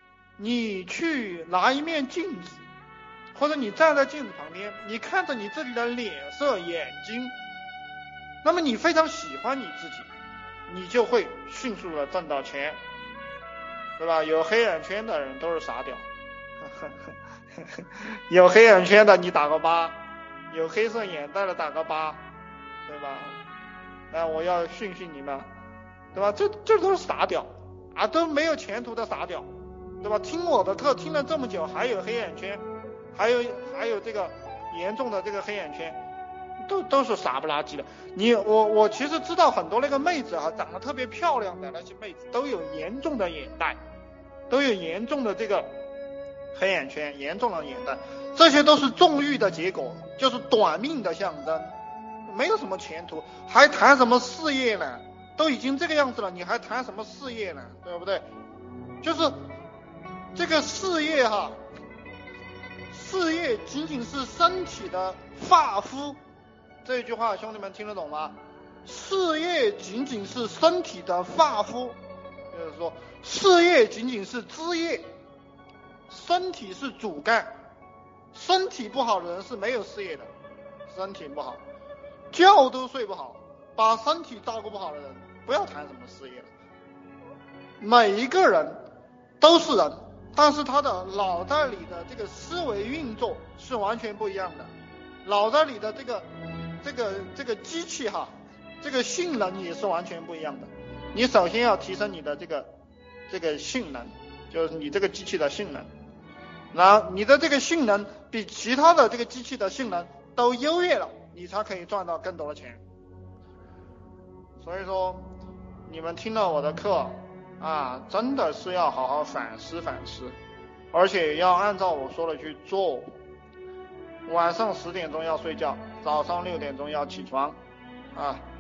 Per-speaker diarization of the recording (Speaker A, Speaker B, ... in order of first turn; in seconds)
Speaker A: 0.4-2.7, 3.3-7.3, 8.4-10.1, 10.7-12.8, 14.0-16.1, 17.6-20.0, 20.5-22.2, 22.9-23.4, 24.1-25.5, 26.1-29.5, 30.0-36.0, 36.6-43.8, 44.5-45.7, 46.5-51.8, 52.3-58.3, 59.0-59.4, 60.4-61.6, 62.9-66.2, 66.8-72.0, 72.5-75.1, 76.1-77.5, 78.3-80.3, 80.9-81.6, 82.3-86.5, 87.8-88.8, 89.4-94.7, 95.2-96.3, 96.8-102.7, 103.3-105.9, 106.7-112.8, 114.6-115.3, 115.9-120.4, 120.9-123.1, 124.3-127.6, 128.1-128.4